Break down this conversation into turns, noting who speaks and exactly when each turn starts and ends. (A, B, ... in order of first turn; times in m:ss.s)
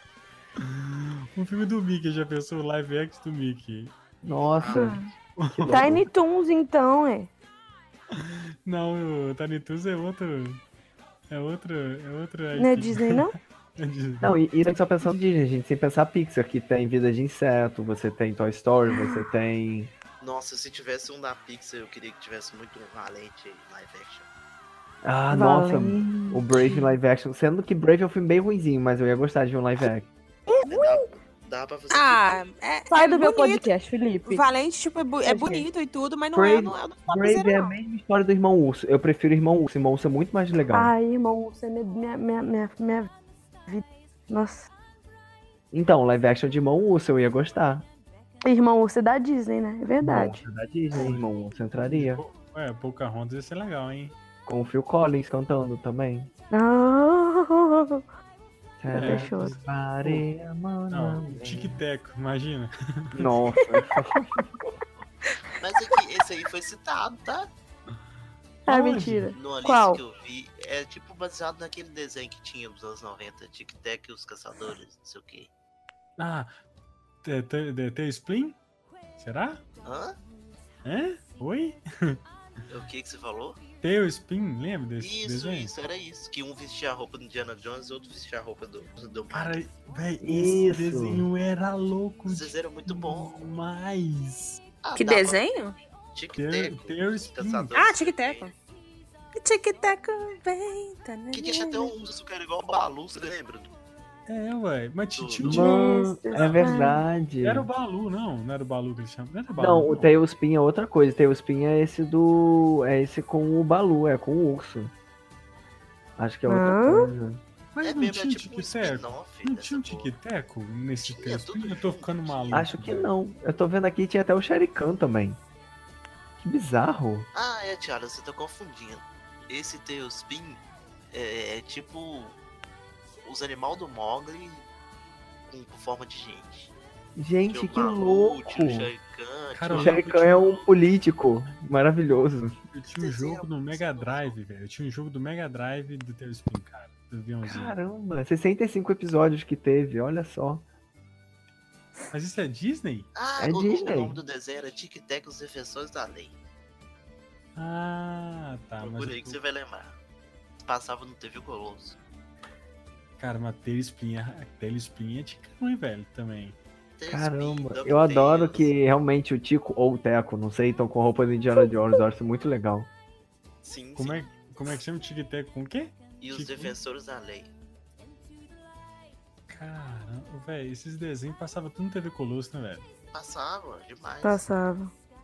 0:00.6-0:03.9 A
0:04.2-0:06.1 B
0:04.4-0:05.0 C
0:04.7-0:05.1 D
0:05.4-0:05.9 A
0:05.7-0:07.3 D
0:08.2-0:10.6 A
0:11.3-0:14.3 A
0:12.5-0:13.3 D
0:14.2-0:19.9 B
0:18.9-0:19.2 D
0:20.2-0:24.3 C
0:25.0-0:30.1 B
0:25.3-0:26.9 D
0:30.5-0:31.1 D
0:30.6-0:32.4 C
0:31.9-0:33.7 E
0:32.9-0:34.4 D
0:34.2-0:37.7 E
0:35.2-0:35.7 D
0:36.3-0:40.9 B
0:40.7-0:43.1 D
0:43.7-0:44.7 D
0:45.7-0:47.8 B
0:48.4-0:50.4 D
0:50.0-0:52.2 B
0:51.0-0:51.2 A
0:51.8-0:54.2 A
0:54.4-0:56.3 B
0:56.5-0:58.0 D
0:58.8-1:01.8 B
0:58.9-0:59.5 D
0:58.9-1:00.2 A
1:00.9-1:03.3 A
1:03.2-1:04.4 B
1:05.6-1:07.5 C
1:08.7-1:09.3 A
1:08.7-1:10.0 D
1:09.3-1:15.5 C
1:16.2-1:16.5 A
1:17.2-1:18.6 A
1:19.2-1:19.6 A
1:19.8-1:20.2 C
1:20.8-1:22.2 A
1:22.7-1:23.6 C
1:23.8-1:25.7 A
1:25.0-1:29.6 C
1:29.3-1:34.6 A
1:30.2-1:31.3 B
1:32.3-1:33.6 C
1:34.8-1:35.4 C
1:35.0-1:35.7 E
1:36.1-1:38.5 C
1:36.4-1:37.7 A
1:37.7-1:38.5 E
1:39.3-1:41.9 E
1:41.3-1:43.7 C
1:44.3-1:46.6 A
1:45.1-1:45.6 C
1:45.4-1:47.7 B
1:45.5-1:47.0 D
1:47.4-1:50.1 A
1:49.6-1:54.9 B
1:56.2-1:57.4 B
1:56.5-1:57.1 D
1:57.7-2:03.1 A
1:57.8-2:00.1 C
2:01.0-2:02.7 C
2:02.5-2:05.4 B
2:06.4-2:07.3 B
2:07.3-2:12.4 C
2:13.2-2:14.6 C
2:15.5-2:16.7 C
2:17.2-2:18.9 B
2:17.5-2:20.6 C
2:19.5-2:20.4 A
2:19.7-2:22.5 B
2:22.7-2:27.7 A
2:23.0-2:24.4 C
2:27.4-2:30.6 B
2:32.1-2:33.1 A
2:33.1-2:36.3 C
2:33.4-2:34.2 B
2:37.6-2:39.4 A
2:38.8-2:40.0 C
2:40.6-2:42.0 C
2:43.2-2:46.6 A
2:47.0-2:48.7 C
2:47.1-2:52.9 B
2:53.6-2:54.5 C
2:54.0-2:56.8 A
2:56.2-2:57.5 C
2:59.5-3:02.9 A
3:03.1-3:04.4 C
3:04.2-3:04.9 D